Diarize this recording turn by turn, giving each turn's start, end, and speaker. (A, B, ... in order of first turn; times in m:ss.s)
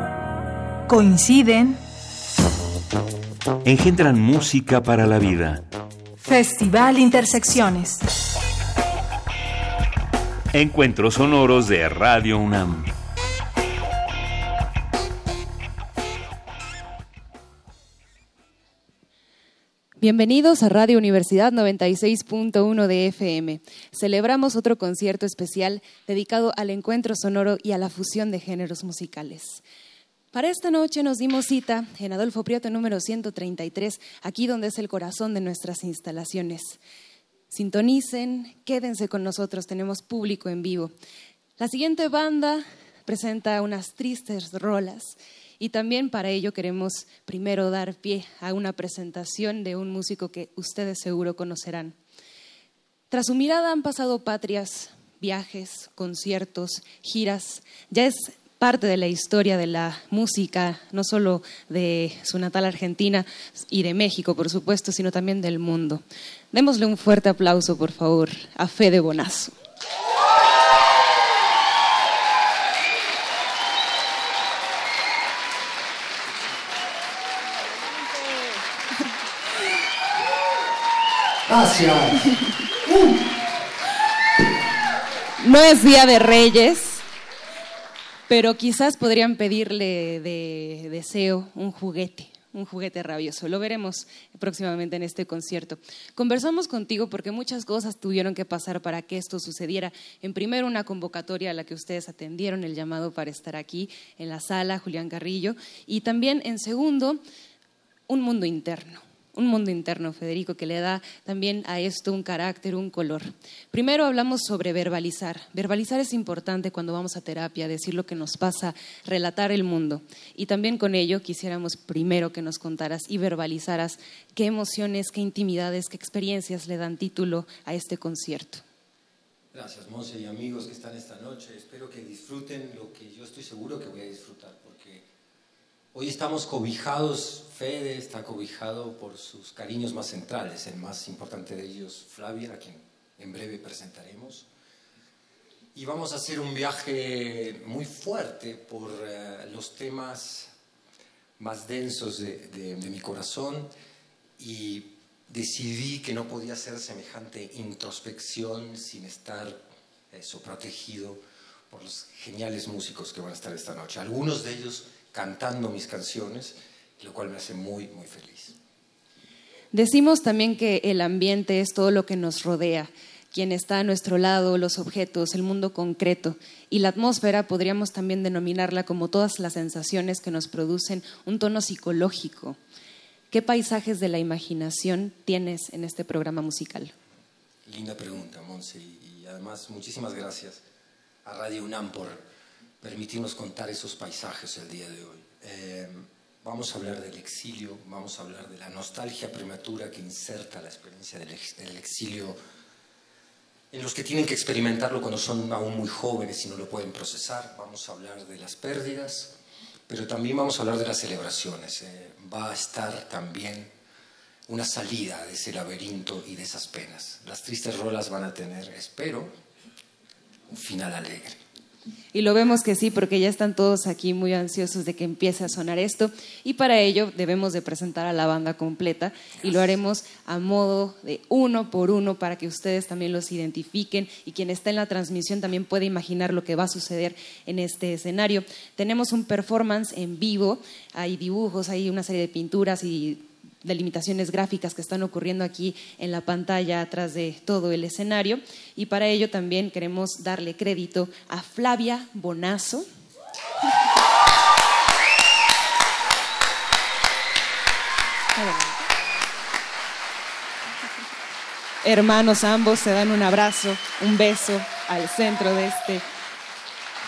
0:00.9-0:01.8 A
0:03.6-0:05.6 B
0:06.2-0:08.0 A
0:10.5-0:12.9 B
0:20.0-0:29.6 C
0:30.3-0:36.8 C
0:37.5-0:41.0 C
0:41.6-0:52.0 C
0:53.1-1:09.6 C
1:21.5-1:23.2 D
1:25.4-1:27.0 C
1:28.3-1:47.2 C
1:48.1-2:08.6 C
2:09.5-2:15.1 D
2:15.9-2:24.5 D
2:25.8-2:30.5 D
2:31.4-2:33.7 D
2:34.4-2:39.6 D
2:40.1-2:48.6 D
2:49.7-3:02.6 C
3:03.3-3:06.9 C
3:07.6-3:10.6 D
3:11.2-3:12.2 D
3:12.8-3:22.4 D
3:23.7-3:29.3 D
3:29.9-3:33.7 D
3:34.5-3:39.3 D
3:40.5-3:41.4 D
3:42.1-4:12.9 C
4:18.4-4:18.9 C
4:21.8-4:26.0 C